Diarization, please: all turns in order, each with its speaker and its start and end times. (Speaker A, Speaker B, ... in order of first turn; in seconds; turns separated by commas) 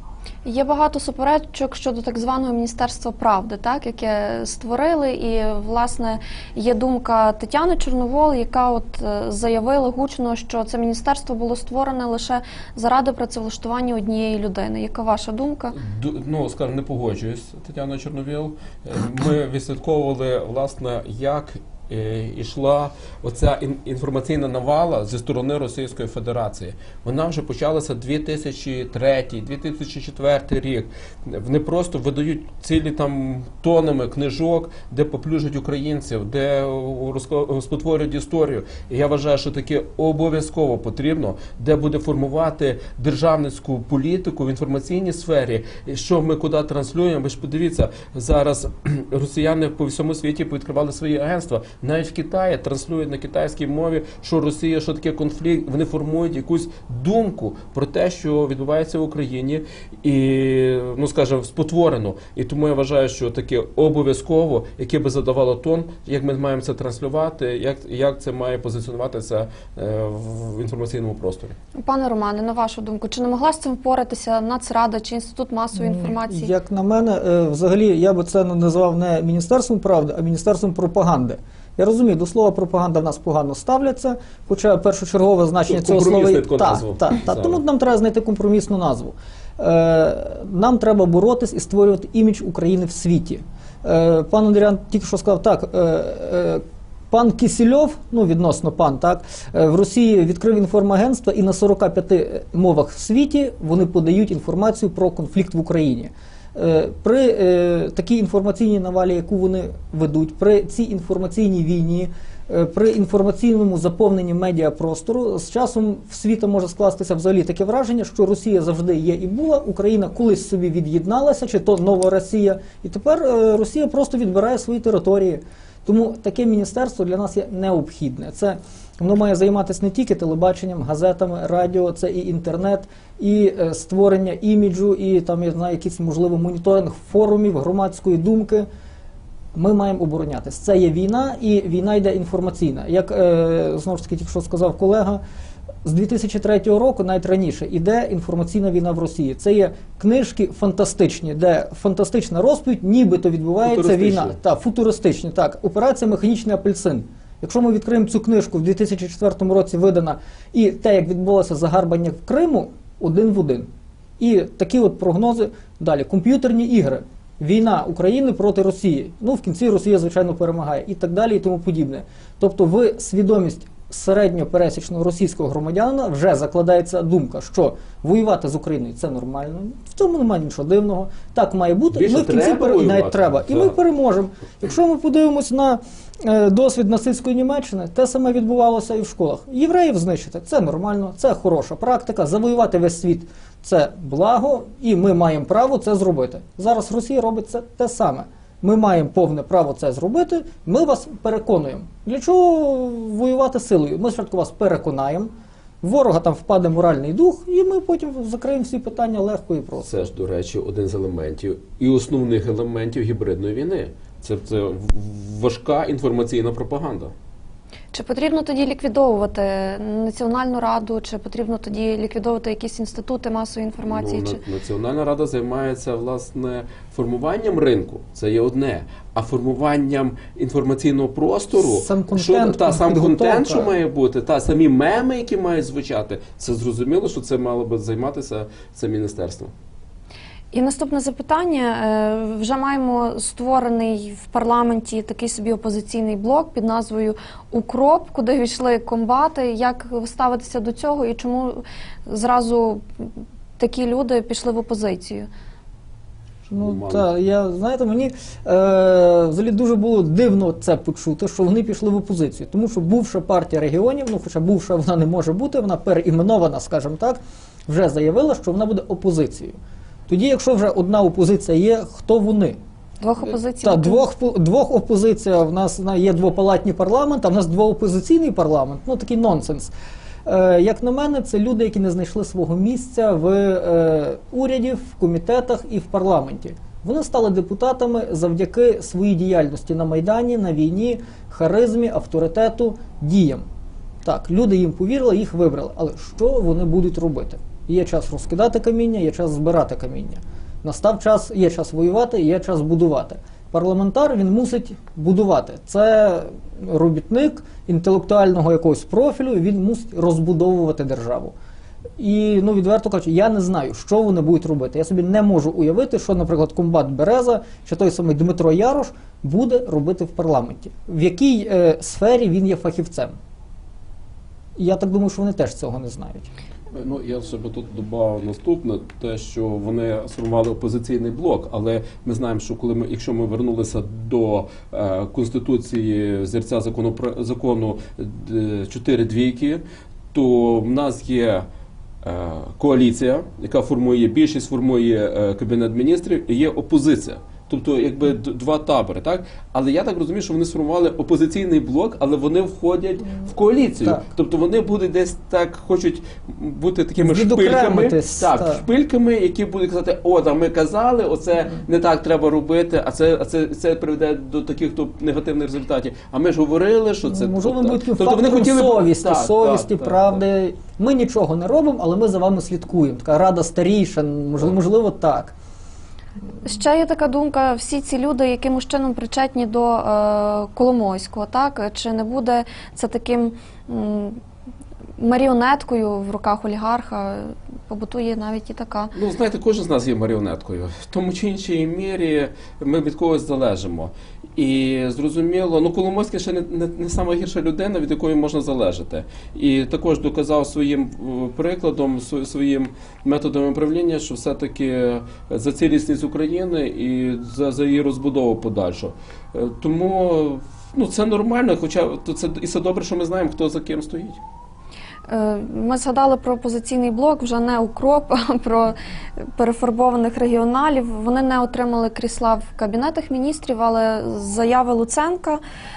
Speaker A: 0.4-15.8, Speaker B: 15.8-71.5, Speaker A: 71.8-76.5, Speaker C: 75.7-138.7, Speaker B: 85.7-87.6, Speaker C: 139.5-145.2, Speaker C: 145.8-209.9, Speaker B: 153.6-154.3, Speaker B: 181.9-183.8, Speaker B: 209.8-217.1, Speaker A: 217.9-224.4, Speaker B: 223.8-239.5, Speaker C: 231.5-233.7, Speaker A: 240.5-255.3, Speaker B: 256.5-257.1, Speaker C: 256.5-269.6, Speaker C: 270.1-272.6, Speaker A: 273.0-274.0, Speaker C: 273.6-279.7, Speaker C: 280.2-293.4, Speaker C: 294.0-311.3, Speaker C: 312.0-323.1, Speaker C: 324.6-326.3, Speaker B: 326.7-341.4, Speaker B: 342.0-370.2, Speaker C: 357.0-358.6, Speaker C: 367.1-375.3, Speaker A: 376.4-384.2, Speaker A: 385.0-388.9, Speaker B: 388.9-414.2, Speaker A: 415.1-425.4